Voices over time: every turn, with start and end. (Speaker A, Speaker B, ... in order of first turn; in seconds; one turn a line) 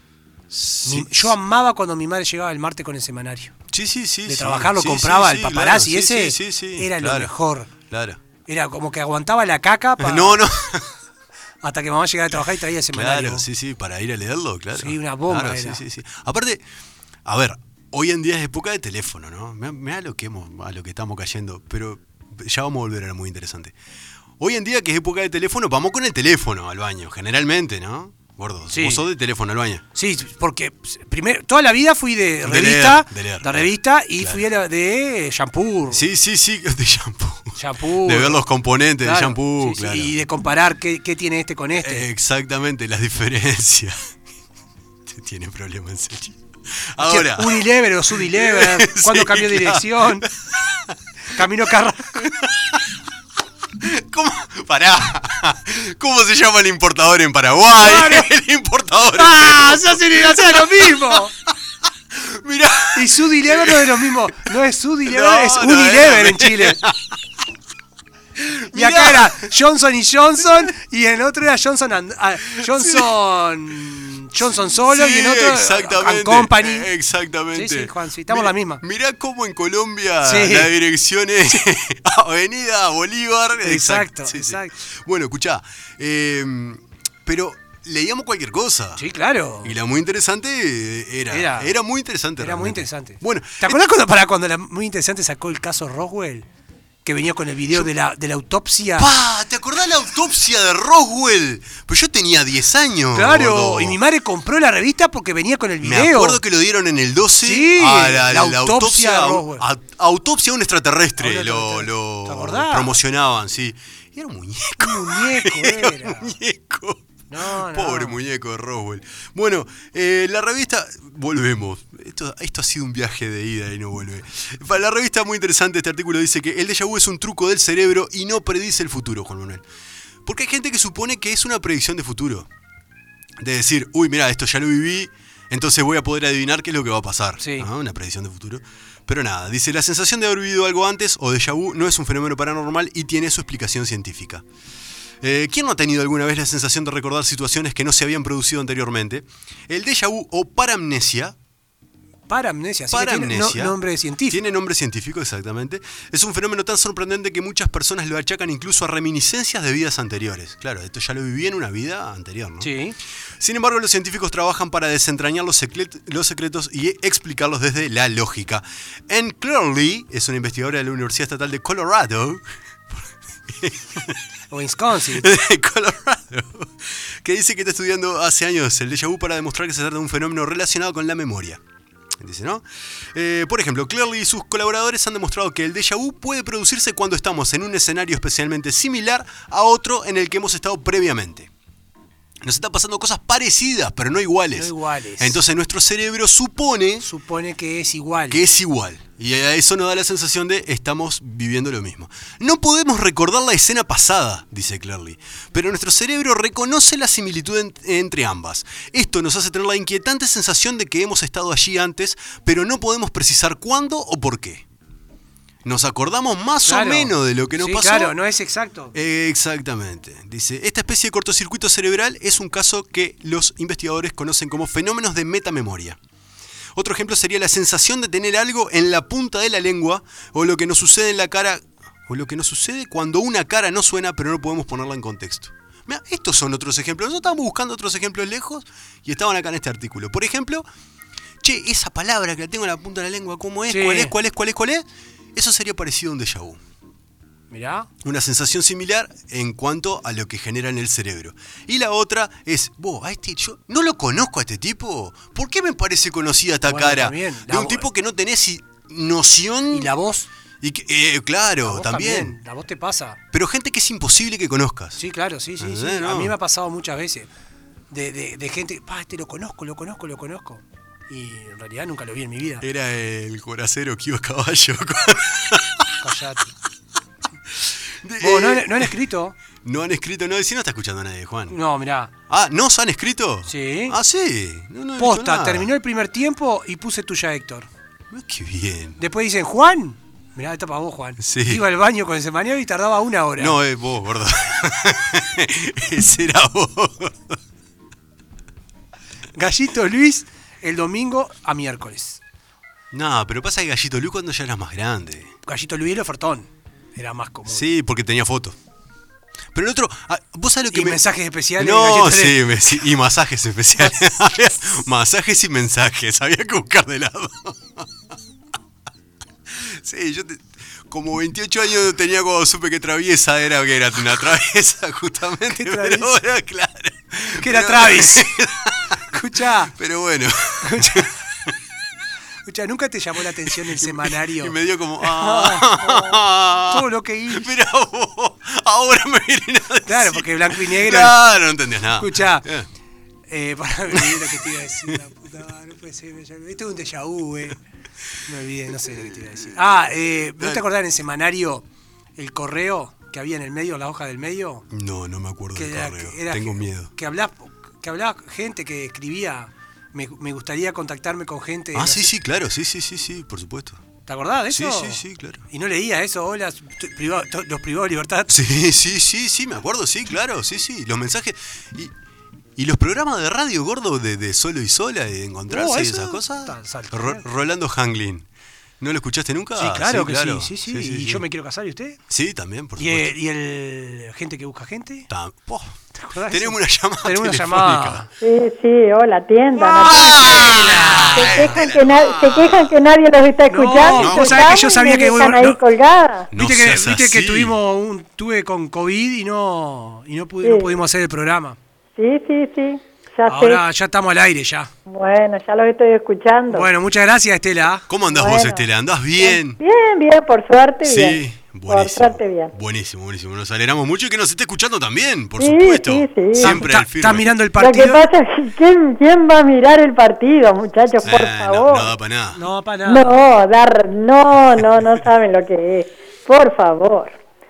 Speaker A: 0.5-1.3
Speaker B: 0.8-3.5
Speaker A: 3.7-7.3
Speaker B: 4.3-7.7
Speaker A: 7.9-8.2
Speaker B: 8.5-10.4
Speaker A: 10.0-10.9
Speaker B: 11.6-13.4
Speaker A: 12.9-16.6
Speaker B: 14.7-15.8
Speaker A: 17.2-23.8
Speaker A: 24.4-29.8
Speaker B: 28.7-29.0
Speaker B: 29.9-36.0
Speaker A: 32.4-34.5
Speaker A: 35.9-40.2
Speaker B: 37.6-38.4
Speaker B: 39.0-42.1
Speaker A: 41.8-44.0
Speaker A: 45.1-51.0
Speaker B: 47.0-50.3
Speaker B: 51.3-52.1
Speaker A: 52.1-52.8
Speaker A: 53.8-61.3
Speaker B: 57.8-58.3
Speaker B: 59.1-61.3
Speaker A: 62.1-63.9
Speaker B: 63.0-66.8
Speaker A: 65.1-67.2
Speaker A: 68.4-69.5
Speaker B: 68.7-76.9
Speaker A: 72.5-73.1
Speaker A: 74.6-89.0
Speaker B: 77.5-78.8
Speaker B: 80.2-80.7
Speaker B: 83.6-84.7
Speaker B: 89.0-89.7
Speaker A: 89.6-93.8
Speaker B: 91.3-91.7
Speaker B: 92.4-96.5
Speaker B: 97.0-99.1
Speaker A: 99.0-104.0
Speaker B: 103.1-106.4
Speaker A: 105.8-129.6
Speaker B: 107.4-109.7
Speaker B: 111.2-113.0
Speaker B: 114.8-116.4
Speaker B: 117.3-118.2
Speaker A: 130.2-132.5
Speaker A: 133.4-144.4
Speaker B: 137.4-137.7
Speaker A: 145.2-151.3
Speaker B: 152.3-154.4
Speaker A: 152.9-162.7
Speaker B: 162.6-163.0
Speaker A: 163.4-174.2
Speaker B: 174.5-175.3
Speaker A: 175.1-181.6
Speaker A: 182.2-191.5
Speaker A: 192.4-197.1
Speaker B: 194.5-195.4
Speaker B: 197.0-198.4
Speaker A: 198.3-214.7
Speaker A: 215.6-218.2
Speaker B: 216.7-218.9
Speaker A: 218.9-226.0
Speaker A: 226.8-240.7
Speaker A: 241.4-246.6
Speaker B: 243.7-244.1
Speaker B: 247.5-247.9
Speaker A: 248.0-259.9
Speaker B: 256.6-257.9
Speaker B: 259.7-260.3
Speaker A: 260.6-262.4
Speaker B: 261.6-263.2
Speaker A: 263.3-265.0
Speaker B: 265.0-267.3
Speaker A: 265.6-266.4
Speaker B: 267.9-272.6
Speaker A: 272.6-275.9
Speaker B: 276.0-276.5
Speaker A: 277.5-278.9
Speaker B: 278.2-279.4
Speaker A: 279.6-281.6
Speaker B: 281.5-282.1
Speaker A: 282.3-285.7
Speaker B: 283.5-284.0
Speaker B: 285.0-287.7
Speaker A: 288.1-289.0
Speaker B: 289.0-293.6
Speaker A: 291.2-291.6
Speaker A: 293.4-297.4
Speaker B: 299.4-302.2
Speaker A: 302.9-305.3
Speaker B: 305.5-307.7
Speaker A: 307.5-308.6
Speaker A: 309.5-311.0
Speaker B: 310.7-312.4
Speaker A: 311.6-317.9
Speaker A: 319.5-329.0
Speaker B: 325.5-326.2
Speaker B: 327.4-328.3
Speaker B: 329.1-329.7
Speaker A: 329.7-331.5
Speaker B: 330.6-331.1
Speaker B: 332.5-337.5
Speaker A: 333.6-342.7
Speaker B: 339.9-341.2
Speaker B: 342.0-342.5
Speaker B: 343.3-347.6
Speaker A: 343.9-344.3
Speaker B: 348.3-351.6
Speaker A: 348.9-349.2
Speaker B: 352.2-354.6
Speaker A: 354.7-356.9
Speaker B: 355.5-362.1
Speaker A: 361.8-363.8
Speaker B: 364.1-368.4
Speaker A: 364.5-365.4
Speaker A: 368.3-371.9
Speaker A: 372.6-378.3
Speaker B: 375.5-377.2
Speaker A: 378.8-381.3
Speaker B: 379.6-382.0
Speaker A: 382.1-383.1
Speaker B: 382.8-385.1
Speaker A: 385.1-385.8
Speaker B: 385.9-388.1
Speaker A: 386.3-388.0
Speaker C: 388.2-396.3
Speaker A: 389.6-392.8
Speaker B: 389.7-391.5
Speaker B: 393.5-395.6
Speaker A: 393.9-394.6
Speaker A: 396.3-397.6
Speaker B: 396.3-401.6
Speaker C: 400.4-400.7
Speaker C: 402.0-403.6
Speaker B: 403.3-404.7
Speaker C: 404.9-406.7
Speaker B: 406.5-407.9
Speaker A: 407.9-409.6
Speaker C: 408.1-408.6
Speaker C: 409.2-412.5
Speaker A: 410.8-417.3
Speaker C: 415.4-416.6
Speaker B: 416.4-418.1
Speaker C: 417.6-421.9
Speaker A: 421.0-422.4
Speaker B: 422.4-423.2
Speaker C: 422.9-427.2